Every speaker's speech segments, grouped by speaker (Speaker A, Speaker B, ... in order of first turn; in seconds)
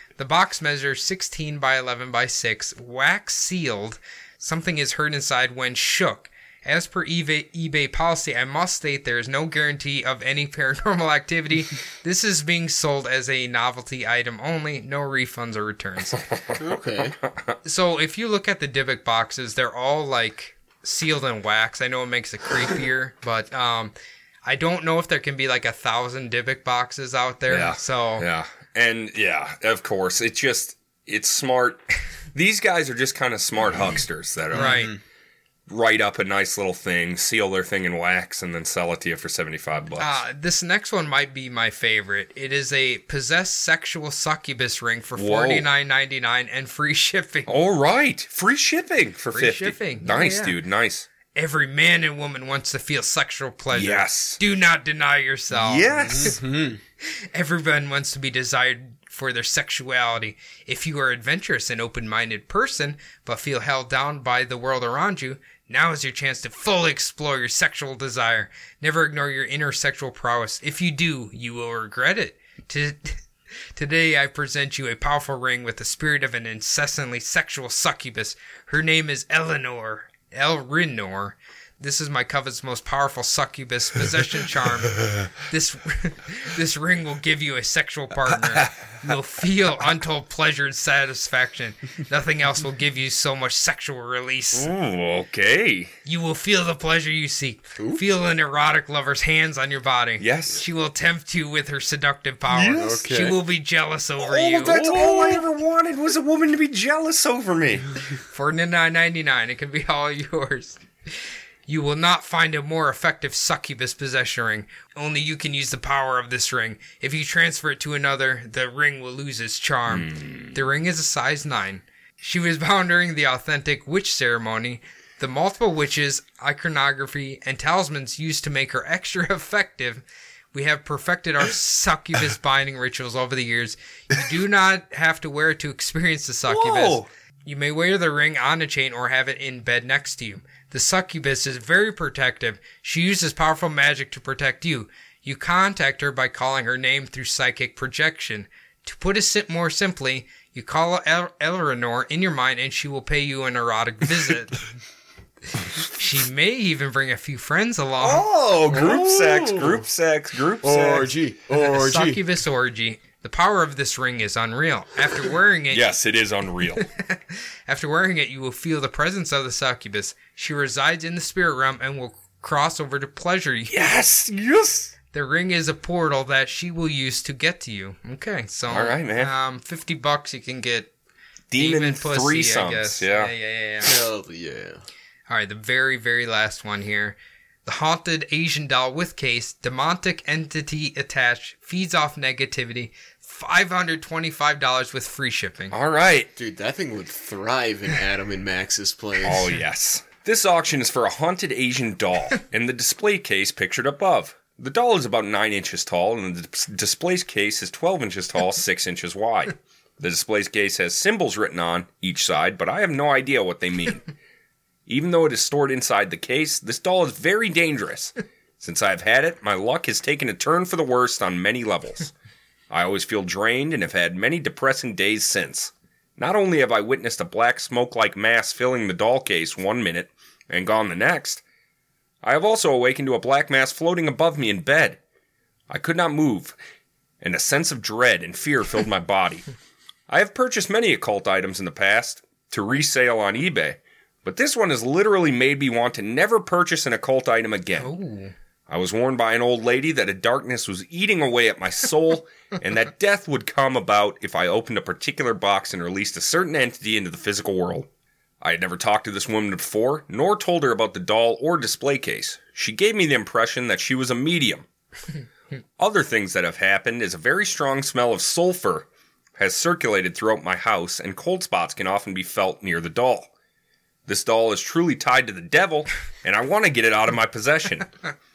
Speaker A: 0.2-16.2, 17.6-23.9, 24.4-28.2, 34.5-34.9, 40.0-47.5, 49.3-50.5, 51.3-56.4, 57.0-73.2, 73.7-94.7, 96.0-104.8, 108.3-154.6, 155.9-158.2, 161.6-165.8, 166.9-173.9, 175.1-180.9, 181.6-184.0, 185.3-195.8, 247.8-248.3
Speaker B: 16.6-17.2, 34.5-35.0, 55.9-56.8, 97.8-98.0, 102.7-103.4, 104.7-105.4, 158.7-159.9, 160.6-162.2, 183.8-184.8, 196.3-199.5
Speaker C: 17.3-17.5, 27.5-31.8, 32.3-34.9, 35.7-40.2, 45.2-45.7, 47.5-51.1, 53.7-54.4, 55.5-56.4, 88.3-89.0, 94.5-95.9, 100.2-100.6, 102.5-102.8, 104.2-107.9, 119.9-120.5, 136.5-137.1, 158.0-161.1, 165.7-166.8, 173.7-174.9, 178.7-179.3, 181.5-183.3, 195.7-196.3, 199.2-214.0, 214.9-222.1, 222.7-231.4, 232.2-235.0, 235.7-236.6, 237.2-239.4, 240.1-247.9, 248.7-257.9, 258.4-264.6, 265.8-273.3, 274.1-277.9